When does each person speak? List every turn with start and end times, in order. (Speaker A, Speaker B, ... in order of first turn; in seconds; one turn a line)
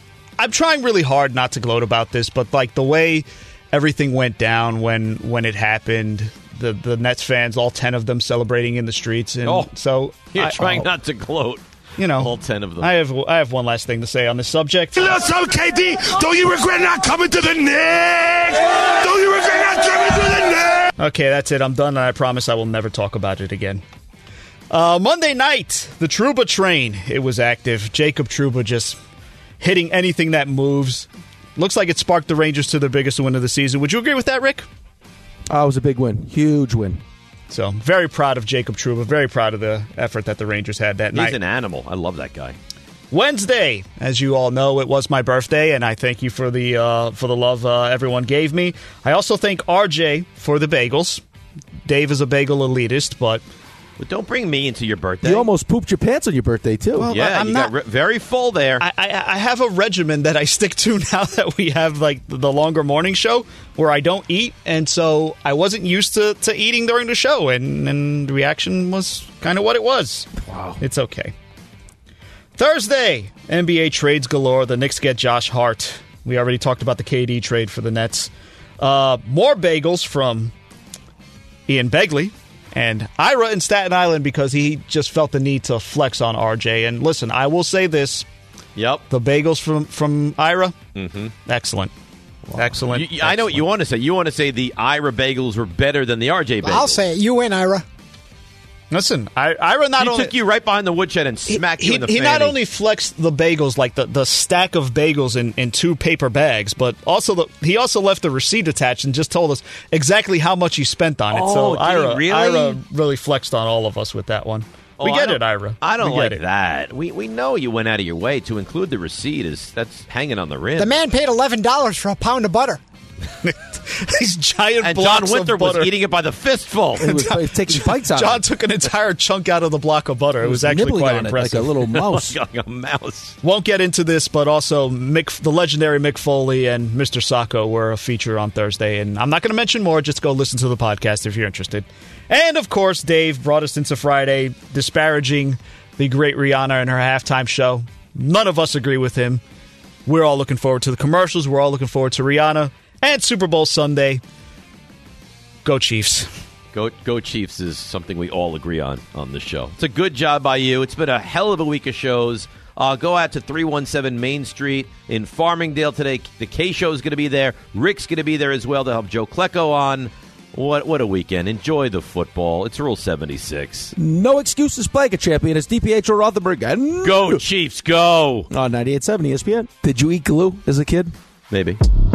Speaker A: 0.4-10.9
Speaker B: 9.4-9.7
Speaker B: 10.3-11.6
Speaker A: 12.0-15.0
Speaker B: 12.2-12.9
Speaker C: 15.0-20.9
Speaker A: 21.0-23.8
Speaker A: 24.7-29.0
Speaker A: 29.6-34.7
Speaker D: 35.5-37.0
Speaker A: 37.5-41.4
Speaker B: 41.1-42.6
Speaker A: 43.1-51.2
Speaker A: 51.9-53.4
Speaker B: 54.0-55.5
Speaker D: 55.2-57.1
Speaker A: 57.0-57.7
Speaker B: 57.1-58.9
Speaker A: 58.8-70.3
Speaker D: 70.4-70.8
Speaker A: 70.8-71.3
Speaker A: 72.6-80.5
Speaker A: 81.7-88.3
Speaker B: 88.8-89.1
Speaker A: 89.1-90.8
Speaker B: 91.0-91.3
Speaker A: 91.5-91.9
Speaker A: 92.5-93.5
Speaker B: 92.9-97.0
Speaker E: 96.6-97.8
Speaker A: 98.9-100.3
Speaker B: 100.0-102.6
Speaker A: 101.5-116.4
Speaker B: 111.3-112.8
Speaker B: 115.0-120.9
Speaker E: 120.8-122.8
Speaker A: 123.4-125.9
Speaker B: 124.8-127.2
Speaker D: 127.0-128.5
Speaker A: 127.0-131.7
Speaker D: 130.4-132.4
Speaker B: 131.9-133.4
Speaker A: 133.4-149.4
Speaker A: 150.1-154.2
Speaker A: 155.6-156.3
Speaker B: 156.7-173.9
Speaker D: 173.9-177.4
Speaker B: 177.0-178.5
Speaker D: 178.5-181.2
Speaker B: 181.5-181.8